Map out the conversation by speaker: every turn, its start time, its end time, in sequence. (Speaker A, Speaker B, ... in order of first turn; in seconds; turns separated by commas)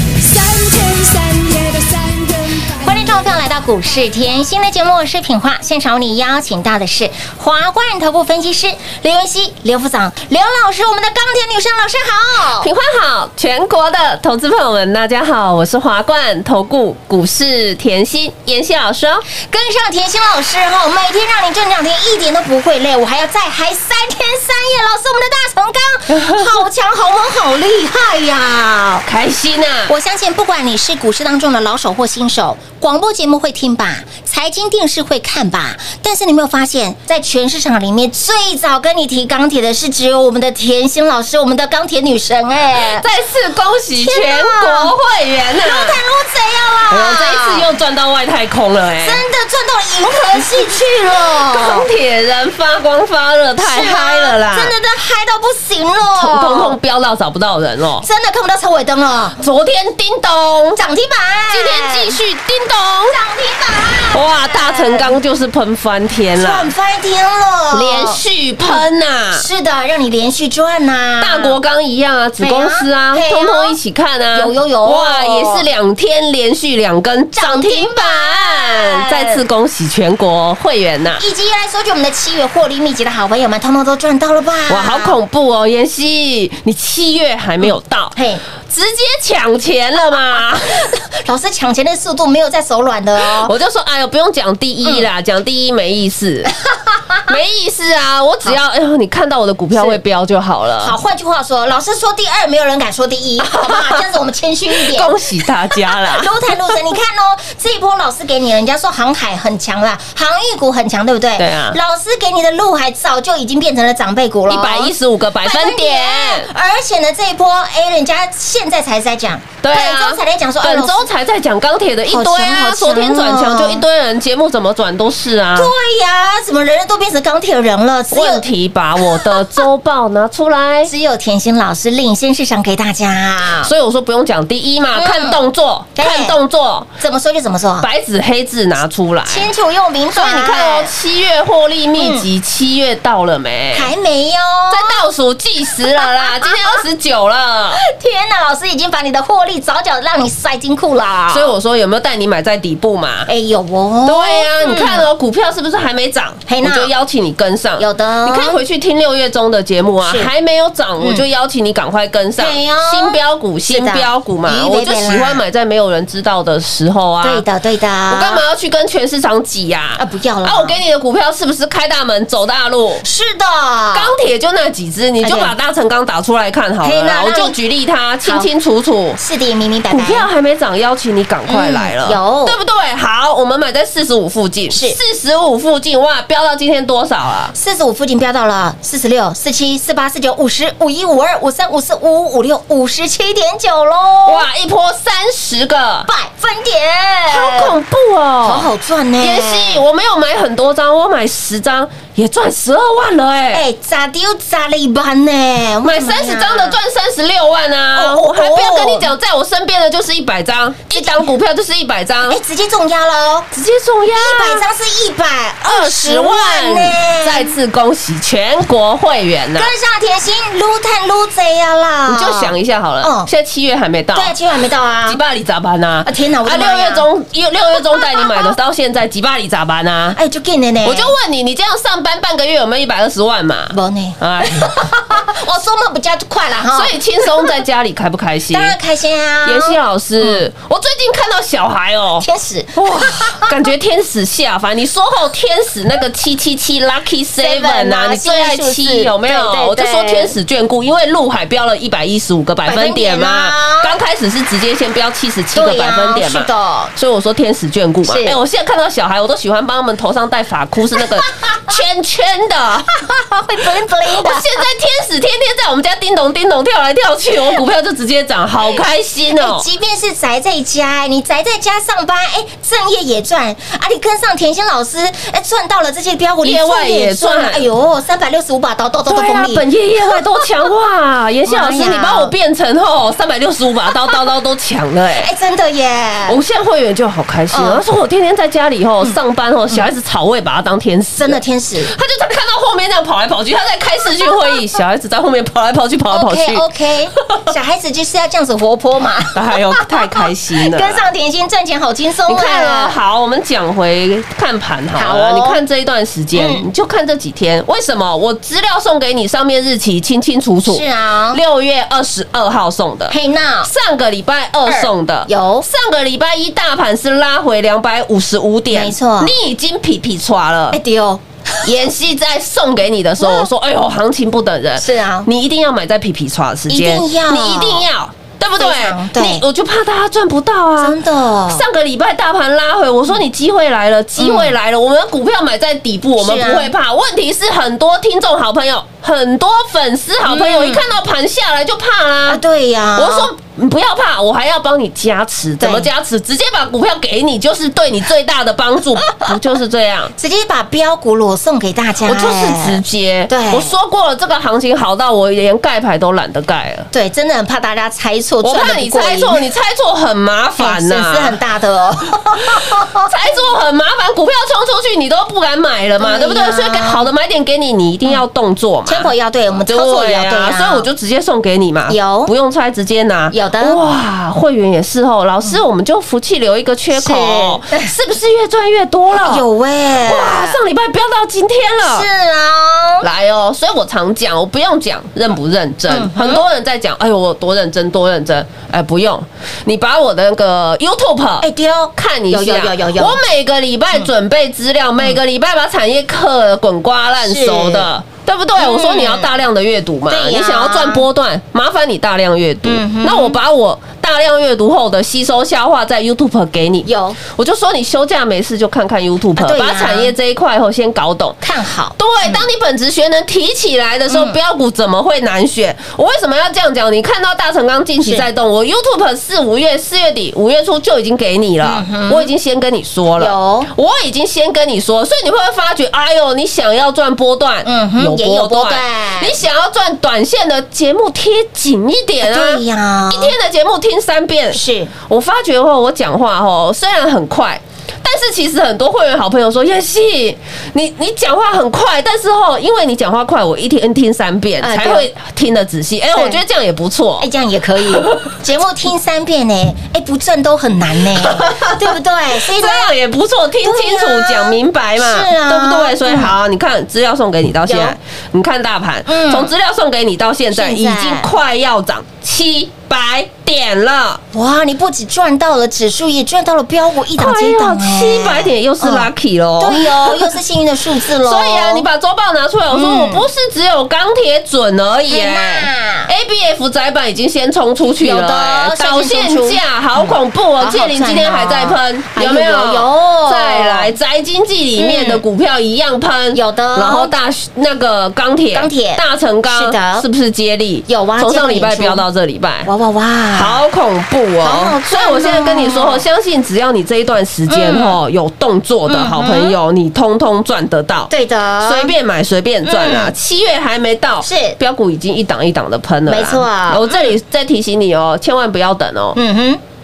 Speaker A: 0.2-3.2, Speaker B: 2.8-12.7, Speaker C: 12.6-19.2, Speaker B: 19.3-29.1, Speaker C: 26.1-26.5, Speaker C: 29.0-29.9, Speaker B: 29.9-43.1, Speaker C: 42.9-46.0, Speaker B: 43.9-44.9, Speaker B: 45.6-47.6, Speaker C: 46.9-49.2, Speaker B: 49.0-51.9, Speaker C: 51.5-54.7, Speaker B: 53.6-56.8, Speaker C: 56.1-58.0, Speaker B: 58.0-59.4, Speaker C: 59.4-60.8, Speaker B: 60.8-62.2, Speaker C: 61.5-63.2, Speaker B: 63.1-65.2, Speaker C: 64.1-66.7, Speaker B: 66.3-71.6, Speaker C: 67.7-69.5, Speaker C: 71.2-81.2, Speaker B: 72.4-73.8, Speaker B: 74.3-75.7, Speaker B: 77.3-79.4, Speaker B: 81.2-85.2, Speaker C: 84.7-88.2, Speaker B: 87.6-88.4, Speaker C: 88.7-90.9, Speaker B: 90.7-93.5, Speaker C: 93.3-96.5, Speaker B: 96.9-97.3, Speaker C: 97.2-100.9, Speaker B: 100.8-121.1, Speaker C: 103.4-104.2, Speaker C: 104.7-106.4, Speaker C: 111.4-111.8, Speaker C: 114.5-116.5, Speaker C: 119.6-125.7, Speaker B: 122.1-123.8, Speaker B: 125.5-128.4, Speaker C: 128.1-130.9, Speaker B: 129.0-129.7, Speaker B: 130.8-133.7, Speaker C: 133.6-136.9, Speaker B: 134.9-135.4, Speaker B: 135.9-136.4, Speaker B: 137.0-137.9, Speaker C: 137.8-139.5, Speaker B: 139.3-140.9, Speaker C: 140.1-143.9, Speaker B: 142.0-142.3, Speaker B: 143.7-145.0, Speaker C: 144.7-147.8, Speaker B: 145.7-146.8, Speaker B: 147.7-151.5, Speaker C: 151.3-153.3, Speaker B: 153.3-155.1, Speaker C: 154.1-167.4, Speaker B: 156.5-156.9, Speaker B: 157.8-158.6, Speaker B: 160.0-160.3, Speaker B: 161.0-161.2, Speaker B: 162.4-165.4, Speaker B: 167.2-168.4, Speaker C: 168.1-173.0, Speaker B: 170.0-170.8, Speaker B: 173.0-174.1, Speaker C: 173.9-179.2, Speaker B: 175.2-175.5, Speaker B: 176.8-177.5, Speaker B: 178.2-178.5, Speaker B: 179.2-180.3, Speaker C: 179.9-187.5, Speaker B: 181.5-182.6, Speaker B: 184.7-185.0, Speaker B: 187.5-194.5, Speaker C: 194.2-196.1, Speaker B: 196.1-197.8, Speaker C: 197.3-198.7, Speaker B: 198.4-199.8, Speaker C: 199.2-203.6, Speaker B: 203.5-206.8, Speaker C: 205.8-212.4, Speaker B: 207.9-209.1, Speaker B: 210.9-211.3, Speaker B: 212.2-213.5, Speaker C: 213.5-214.7, Speaker B: 214.1-217.5, Speaker C: 215.6-219.7, Speaker B: 219.6-223.3, Speaker C: 222.1-224.3, Speaker B: 224.1-225.2, Speaker C: 225.1-230.2, Speaker B: 226.0-227.1, Speaker B: 227.8-228.5, Speaker B: 230.1-231.1, Speaker C: 230.8-234.7, Speaker B: 233.7-237.5, Speaker C: 236.7-238.8, Speaker B: 238.5-240.4, Speaker C: 239.4-262.9, Speaker B: 242.2-243.5, Speaker B: 247.4-250.3, Speaker B: 252.6-254.0, Speaker B: 255.5-256.9, Speaker B: 258.0-258.4, Speaker B: 261.0-261.8, Speaker B: 263.0-264.6, Speaker C: 264.1-269.6, Speaker B: 269.3-280.5, Speaker C: 276.4-277.7, Speaker C: 279.1-285.3, Speaker B: 281.4-282.3, Speaker B: 285.2-286.4, Speaker C: 286.3-296.6, Speaker B: 287.5-287.8, Speaker B: 291.2-291.9, Speaker B: 296.1-302.9, Speaker C: 299.3-301.0, Speaker C: 302.3-320.8, Speaker B: 304.9-305.6, Speaker B: 306.3-306.7, Speaker B: 310.6-311.4, Speaker B: 313.1-313.7, Speaker B: 314.6-315.7, Speaker B: 318.7-319.3, Speaker B: 320.7-321.7, Speaker C: 321.6-342.4, Speaker B: 323.2-323.5, Speaker B: 324.8-325.3, Speaker B: 326.7-327.9, Speaker B: 328.6-329.4, Speaker B: 330.8-331.6, Speaker B: 334.2-334.5, Speaker B: 336.2-336.7, Speaker B: 340.2-340.8, Speaker B: 342.3-343.3, Speaker C: 342.9-350.1, Speaker B: 345.6-345.9, Speaker B: 350.2-353.7, Speaker C: 352.0-356.9, Speaker B: 356.9-359.4, Speaker C: 358.4-361.4, Speaker B: 360.6-363.4, Speaker C: 363.0-369.1, Speaker B: 366.0-367.1, Speaker B: 368.9-370.9, Speaker C: 369.7-379.4, Speaker B: 371.9-372.3, Speaker B: 373.3-373.8, Speaker B: 376.9-377.9, Speaker B: 379.1-380.6, Speaker C: 380.0-382.1, Speaker B: 381.8-383.1, Speaker C: 383.0-411.4, Speaker B: 385.9-386.4, Speaker B: 391.4-393.2, Speaker B: 397.2-397.9, Speaker B: 398.6-399.3, Speaker B: 400.1-401.1, Speaker B: 402.6-403.4, Speaker B: 406.8-407.2, Speaker B: 409.4-410.1, Speaker B: 411.4-412.4, Speaker C: 412.0-447.3, Speaker B: 414.1-414.4, Speaker B: 421.6-422.3, Speaker B: 423.2-423.7, Speaker B: 427.6-429.4, Speaker B: 432.2-433.4, Speaker B: 434.5-434.9, Speaker B: 444.6-445.1, Speaker B: 446.1-446.4, Speaker B: 447.2-452.9, Speaker C: 447.9-448.2, Speaker C: 451.1-464.2, Speaker B: 453.6-456.4, Speaker B: 457.6-458.0, Speaker B: 459.1-459.5, Speaker B: 460.5-461.3, Speaker B: 464.3-471.9, Speaker C: 467.2-470.3, Speaker C: 471.2-492.7, Speaker B: 472.7-473.3, Speaker B: 475.1-476.1, Speaker B: 478.0-483.9, Speaker B: 484.8-485.2, Speaker B: 486.3-487.1, Speaker B: 488.5-490.1, Speaker B: 490.9-492.0, Speaker B: 492.6-493.6, Speaker C: 493.3-501.1, Speaker B: 494.4-496.1, Speaker B: 497.5-498.0, Speaker B: 498.9-499.6, Speaker B: 501.1-501.9, Speaker C: 501.6-509.2, Speaker B: 502.6-503.1, Speaker B: 504.2-504.6, Speaker B: 506.1-507.1, Speaker B: 509.1-509.6